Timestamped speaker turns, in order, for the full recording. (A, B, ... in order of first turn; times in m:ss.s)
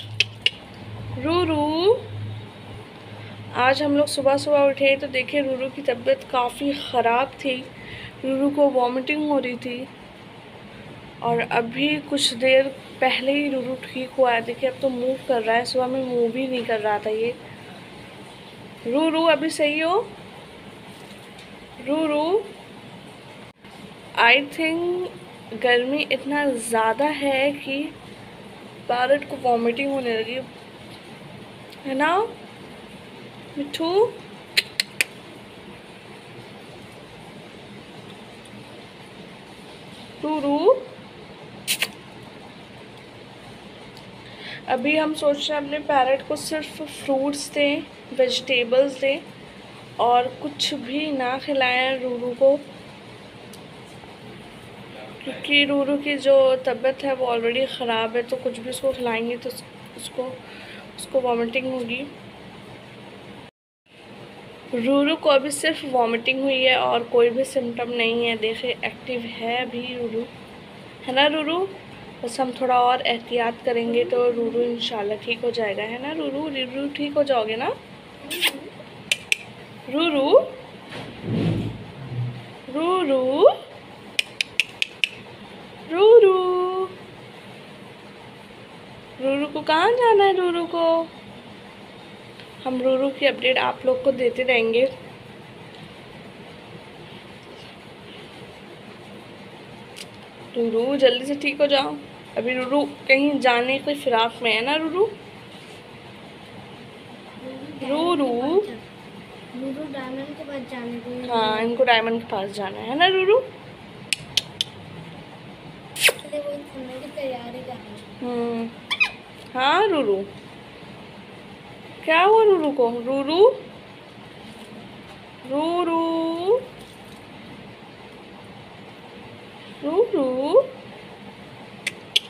0:01.2-0:02.1 A
0:03.6-0:07.7 A
0:08.2-0:09.9 A
0:11.2-0:17.4 A
0:18.9-0:20.1 A
0:21.8-0:22.5 A
0:24.2-0:27.9 A
0:28.9-0:30.4 A
0:31.8-0:32.4 A
0:33.6-0:34.2 A
0:40.2-0:40.8 A
0:44.7-0:49.2 A
0:50.0-0:52.6 A
0:55.2-1:00.4 A
1:01.0-1:02.1 A
1:04.8-1:10.3 A
1:11.0-1:17.7 A
1:14.0-1:14.4 B
1:18.2-1:18.7 B
1:19.9-1:20.4 A
1:22.7-1:23.5 A
1:25.9-1:26.9 A
1:29.2-1:31.0 A
1:32.6-1:34.9 A
1:40.5-1:45.1 A
1:47.4-1:48.8 B
1:47.8-1:48.6 A
1:49.5-1:51.7 B
1:51.2-1:53.4 A
1:56.2-1:58.0 B
1:58.2-1:58.7 A
1:59.5-2:00.3 A
2:02.0-2:03.6 A
2:05.4-2:06.6 A
2:09.8-2:10.7 A